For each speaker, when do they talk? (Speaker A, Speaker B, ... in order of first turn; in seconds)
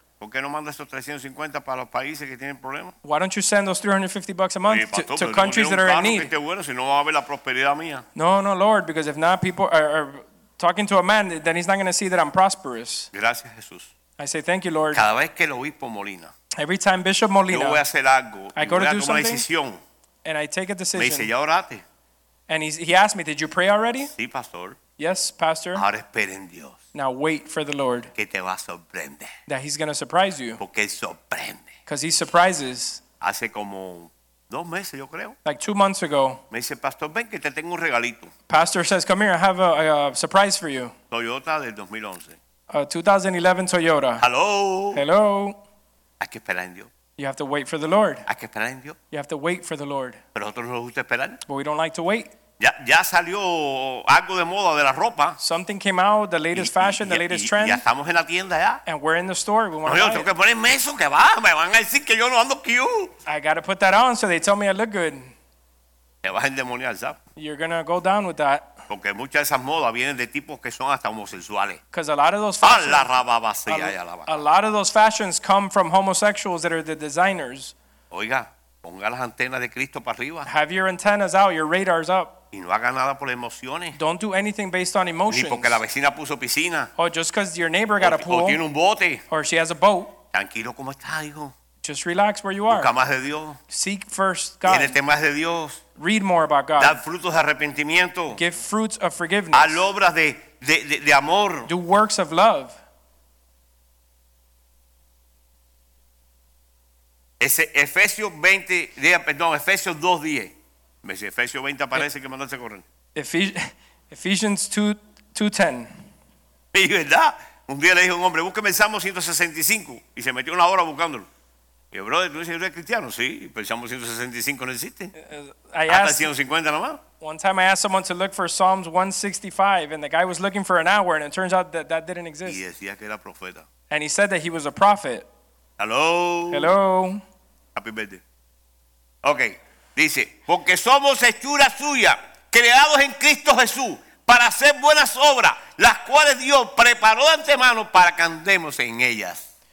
Speaker A: 0.2-3.0, 4.7-8.1, 13.1-13.9, 14.9-16.3, 17.5-19.8, 20.9-21.8, 24.1-24.8, 25.7-26.8, 28.2-29.3, 30.6-31.7, 33.2-35.4, 36.5-38.3, 41.1-42.4, 44.2-45.0, 46.2-46.9, 48.3-49.0, 50.4-51.4, 52.6-55.4, 56.5-58.8, 59.9-63.1, 66.2-67.2, 68.9-71.8, 72.6-74.4, 78.1-80.5, 82.5-84.0, 85.3-86.9, 88.0-89.2, 90.3-91.5, 92.7-93.6, 94.7-95.8, 96.8-98.4, 99.5-101.7, 107.4-112.8, 116.7-121.3, 121.9-125.1, 125.9-127.0, 132.4-133.7, 135.8-136.7, 137.7-138.2, 139.2-149.4
Speaker B: 3.0-6.3, 8.1-13.1, 14.2-15.0, 16.6-17.8, 18.6-19.4, 20.2-21.3, 22.5-24.1, 25.0-25.8, 26.9-28.1, 29.5-30.6, 31.9-33.0, 35.5-36.4, 38.5-40.9, 42.7-44.2, 44.9-45.6, 47.2-48.3, 49.1-50.2, 51.5-52.3, 55.4-57.8, 58.9-60.3, 63.3-65.3, 67.4-68.7, 71.9-73.1, 73.7-77.7, 80.5-82.3, 84.0-85.8, 87.0-88.6, 89.3-90.1, 91.8-92.9, 93.7-95.0, 96.0-97.0, 98.3-99.8, 101.7-102.8, 113.1-116.0, 125.2-126.3, 127.2-132.6, 133.9-135.3, 136.5-137.2